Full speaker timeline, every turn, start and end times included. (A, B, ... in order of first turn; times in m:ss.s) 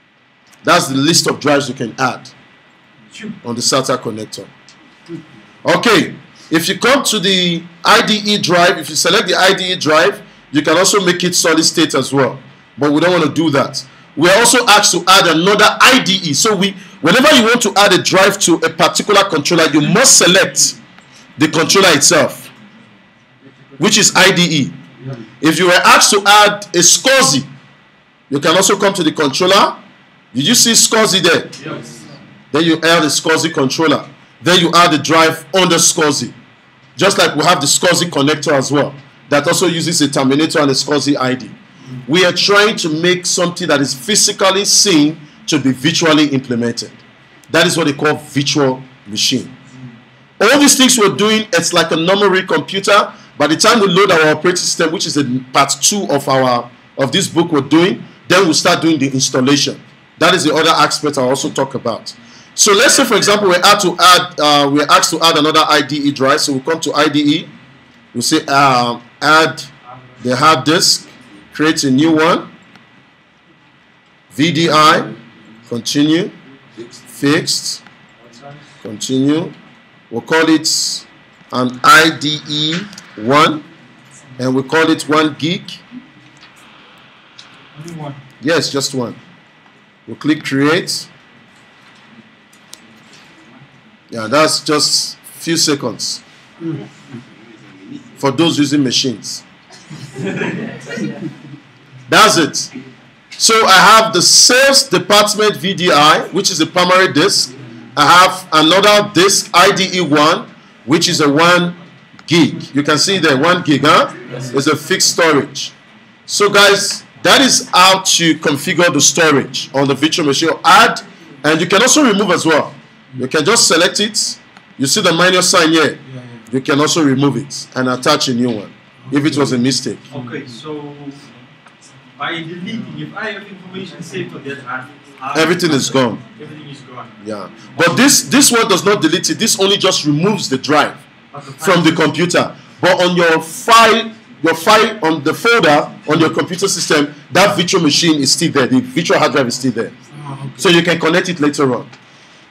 0:00.6-0:02.3 A
0:03.1-0:03.4 B
0:03.4-0:04.5 A
0:05.6-0:20.8 A
0:21.4-0:22.5 A
0:23.8-0:24.8 A
0:25.4-0:27.5 A
0:28.3-0:29.8 A
0:30.3-0:31.5 A
0:31.6-0:31.9 B
0:32.5-0:36.3 A
0:37.0-0:41.5 A
0:42.0-0:47.0 A
0:47.5-0:49.5 A
0:50.4-1:07.5 A
1:08.1-1:09.7 A
1:09.9-1:10.2 B
1:10.2-1:12.5 A
1:14.3-1:15.1 A
1:15.7-1:16.3 A
1:17.1-1:17.8 A
1:18.2-1:18.6 B
1:18.8-1:19.5 A
1:20.1-1:23.6 A
1:24.4-1:25.8 A
1:27.7-1:28.2 B
1:28.4-1:29.2 A
1:30.1-1:31.1 A
1:34.1-1:36.2 A
1:38.2-1:39.4 A
1:42.1-1:42.7 A
1:43.4-1:55.7 A
1:54.3-1:54.6 C
1:56.3-2:10.0 A
2:06.0-2:06.4 C
2:09.0-2:10.5 C
2:10.1-2:11.2 B
2:12.2-2:17.2 B
2:15.3-2:16.2 A
2:17.2-2:21.0 A
2:17.8-2:18.2 B
2:21.3-2:22.2 B
2:21.6-2:29.9 A
2:30.1-2:30.7 C
2:30.6-2:31.9 A